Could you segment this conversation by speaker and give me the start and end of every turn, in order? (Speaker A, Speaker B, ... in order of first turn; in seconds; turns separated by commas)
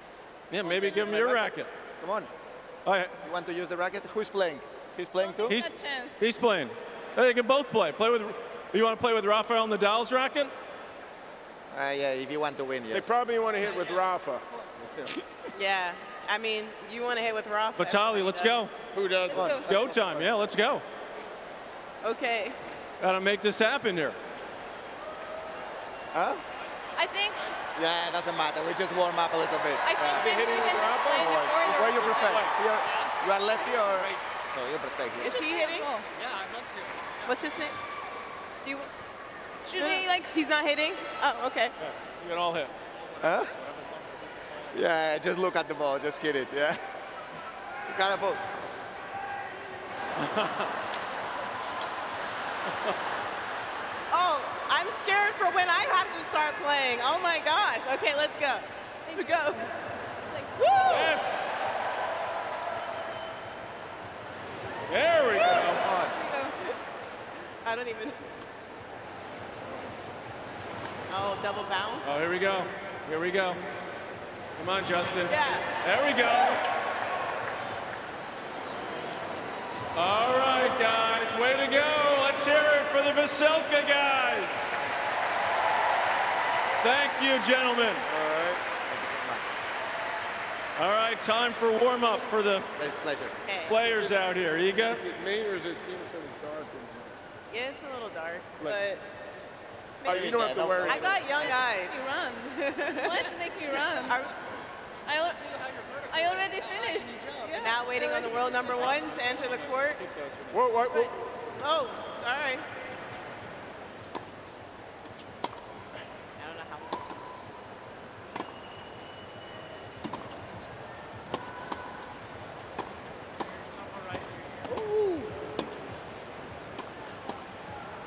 Speaker A: 0.5-1.7, Speaker B: 0.6-2.3, Speaker A: 2.9-3.1, Speaker B: 3.2-5.6, Speaker C: 5.2-6.2, Speaker A: 5.5-10.5, Speaker B: 11.7-13.1, Speaker D: 12.9-14.4, Speaker B: 14.8-15.1, Speaker E: 15.5-18.5, Speaker A: 17.8-18.7, Speaker D: 18.9-20.2, Speaker B: 19.3-19.6, Speaker C: 19.3-19.6, Speaker A: 19.6-20.8, Speaker E: 22.0-22.6, Speaker A: 23.0-24.2, Speaker B: 26.1-26.4, Speaker C: 27.0-27.5, Speaker B: 27.7-30.3, Speaker C: 29.8-32.5, Speaker D: 30.1-32.3, Speaker B: 31.6-35.3, Speaker A: 32.1-32.5, Speaker E: 35.2-35.9, Speaker C: 35.2-36.0, Speaker E: 37.2-37.7, Speaker C: 39.7-40.2, Speaker E: 39.7-41.7, Speaker A: 41.8-42.7, Speaker B: 43.2-43.5, Speaker B: 44.7-46.8, Speaker B: 47.9-48.5, Speaker A: 50.2-50.7, Speaker E: 54.1-59.6, Speaker C: 59.1-59.7, Speaker C: 60.2-61.0, Speaker E: 60.6-61.1, Speaker A: 60.9-61.5, Speaker A: 64.9-65.8, Speaker C: 65.9-66.5, Speaker E: 67.6-68.2, Speaker E: 71.1-72.0, Speaker A: 72.0-73.6, Speaker A: 74.6-76.6, Speaker E: 75.3-75.7, Speaker A: 79.9-84.8, Speaker A: 86.8-88.0, Speaker D: 88.1-88.6, Speaker B: 88.8-89.4, Speaker A: 90.8-92.7, Speaker B: 92.8-93.3, Speaker E: 93.4-93.8, Speaker A: 93.7-95.0, Speaker D: 94.9-97.2, Speaker E: 97.5-99.0, Speaker D: 100.0-101.2, Speaker B: 100.0-101.6, Speaker E: 100.8-102.0, Speaker C: 101.9-104.2, Speaker E: 102.6-103.2, Speaker C: 105.1-105.4, Speaker C: 106.1-108.9, Speaker E: 107.5-110.0, Speaker A: 110.0-110.6, Speaker D: 110.5-111.1, Speaker E: 111.6-112.6, Speaker E: 116.4-116.9